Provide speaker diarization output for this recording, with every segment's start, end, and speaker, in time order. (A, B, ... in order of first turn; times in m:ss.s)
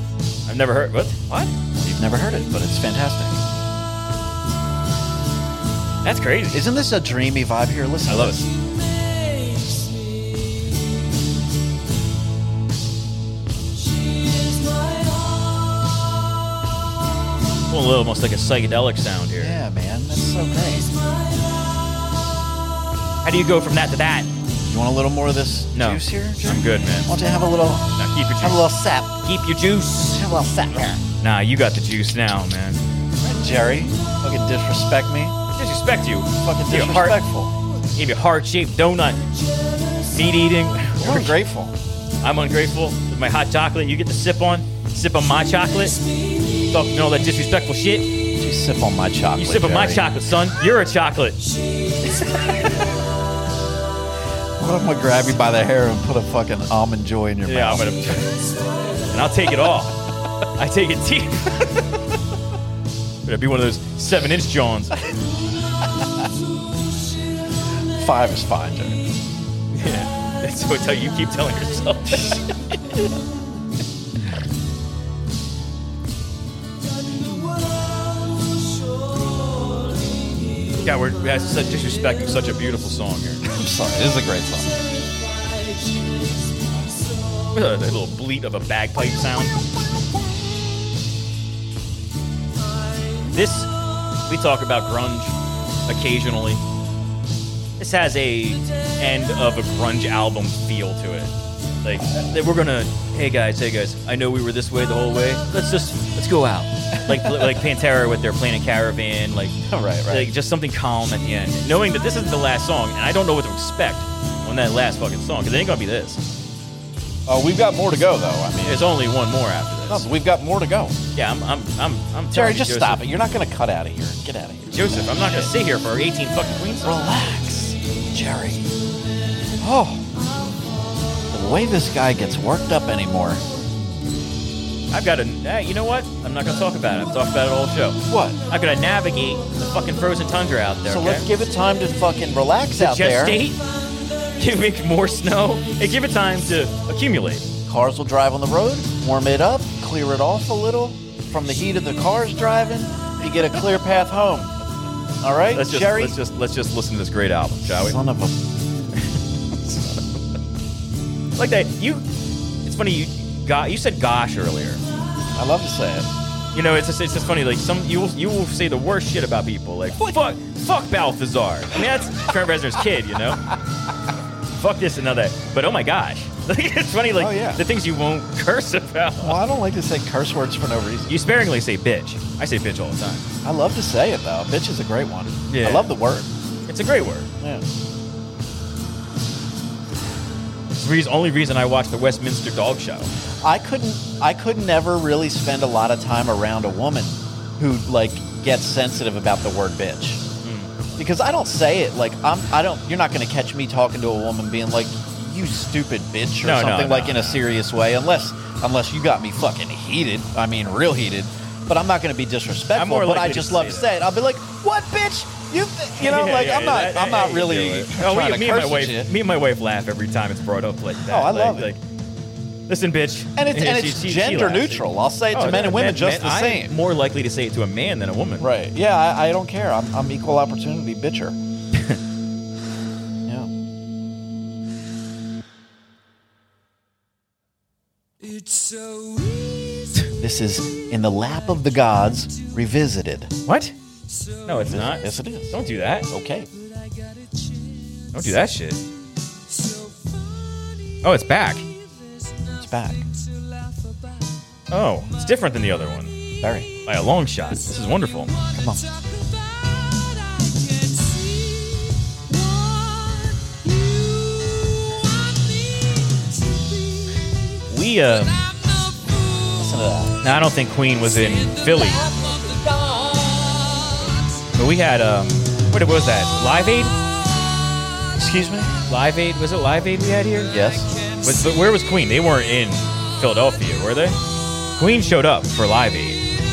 0:00.5-0:01.5 A
0:01.8-0:03.4 B
0:06.0-0:06.6 A
0:06.5-0:08.4 B
0:08.1-0:08.4 A
0:09.4-0:10.1 C
0:14.0-0:15.4 C
0:17.7-0:19.6 A
0:19.4-0:20.9 B
0:23.2-0:24.3 A
0:24.7-0:29.2 B
0:25.7-0:27.1 A
0:28.0-0:28.7 A
0:29.2-0:30.2 A
0:30.0-0:31.0 B
0:31.2-0:32.8 A
0:33.2-0:35.4 B
0:35.6-0:37.2 A
0:36.4-0:37.5 B
0:38.0-0:39.2 A
0:40.1-0:41.4 A
0:41.0-0:41.7 B
0:42.2-0:46.0 A
0:46.7-0:48.2 A
0:48.4-0:50.2 B
0:49.4-0:51.4 A
0:52.0-0:52.6 B
0:54.6-0:58.2 B
0:57.4-0:58.3 A
0:59.1-0:59.9 A
1:00.6-1:01.8 A
1:03.2-1:05.0 A
1:07.9-1:09.0 B
1:09.7-1:12.5 A
1:12.1-1:12.4 B
1:17.1-1:18.5 C
1:19.2-1:20.1 C
1:20.8-1:23.4 A
1:23.4-1:24.7 B
1:25.2-1:26.3 C
1:27.5-1:29.6 A
1:33.3-1:33.7 A
1:34.2-1:35.3 A
1:35.9-1:36.6 A
1:37.8-1:49.6 A
1:47.0-1:47.6 B
1:49.7-1:50.3 B
1:50.1-1:56.2 A
1:57.3-1:58.9 B
1:58.6-2:00.1 A
1:59.9-2:01.0 B
2:01.1-2:03.0 A
2:02.3-2:05.5 B
2:04.7-2:07.0 A
2:06.8-2:08.7 B
2:09.6-2:10.0 B
2:11.3-2:13.4 B
2:14.9-2:21.2 A
2:18.1-2:18.4 B
2:20.9-2:23.4 B
2:22.8-2:23.6 A
2:24.4-2:27.4 A
2:27.6-2:34.5 B
2:35.2-2:36.2 B
2:35.5-2:38.0 A
2:37.6-2:38.4 B
2:39.5-2:40.0 A
2:41.4-2:42.0 A
2:42.6-2:44.8 A
2:45.3-2:46.1 B
2:46.5-2:53.4 A
2:54.6-2:59.4 A
2:57.1-2:57.6 B
2:59.2-3:01.2 B
3:01.1-3:03.2 A
3:03.4-3:06.3 B
3:05.5-3:05.9 A
3:06.7-3:07.3 A
3:07.4-3:07.6 B
3:10.7-3:13.1 A
3:13.4-3:20.2 B
3:20.4-3:20.7 A
3:21.0-3:39.1 B
3:26.4-3:27.4 A
3:32.7-3:33.9 A
3:36.0-3:41.8 A
3:41.1-3:41.7 B
3:42.7-3:48.5 A
3:43.4-3:46.7 B
3:48.4-3:51.4 B
3:51.7-3:52.0 A
3:58.2-4:00.0 C
4:00.2-4:03.3 B
4:03.4-4:03.7 A
4:04.4-4:06.1 A
4:04.6-4:05.6 B
4:06.1-4:06.5 B
4:07.2-4:07.5 C
4:08.1-4:08.8 A
4:09.5-4:10.1 C
4:11.0-4:11.6 A
4:12.6-4:13.0 B
4:13.2-4:14.4 C
4:14.7-4:16.1 A
4:16.4-4:16.7 B
4:16.8-4:18.3 A
4:18.5-4:18.8 B
4:19.6-4:27.2 C
4:27.7-4:28.5 A
4:29.5-4:30.2 B
4:30.2-4:32.1 A
4:32.2-4:33.2 C
4:34.5-4:36.9 A
4:38.2-4:38.7 B
4:38.9-4:40.6 A
4:40.5-4:40.9 B
4:41.2-4:44.2 A
4:44.8-4:46.2 A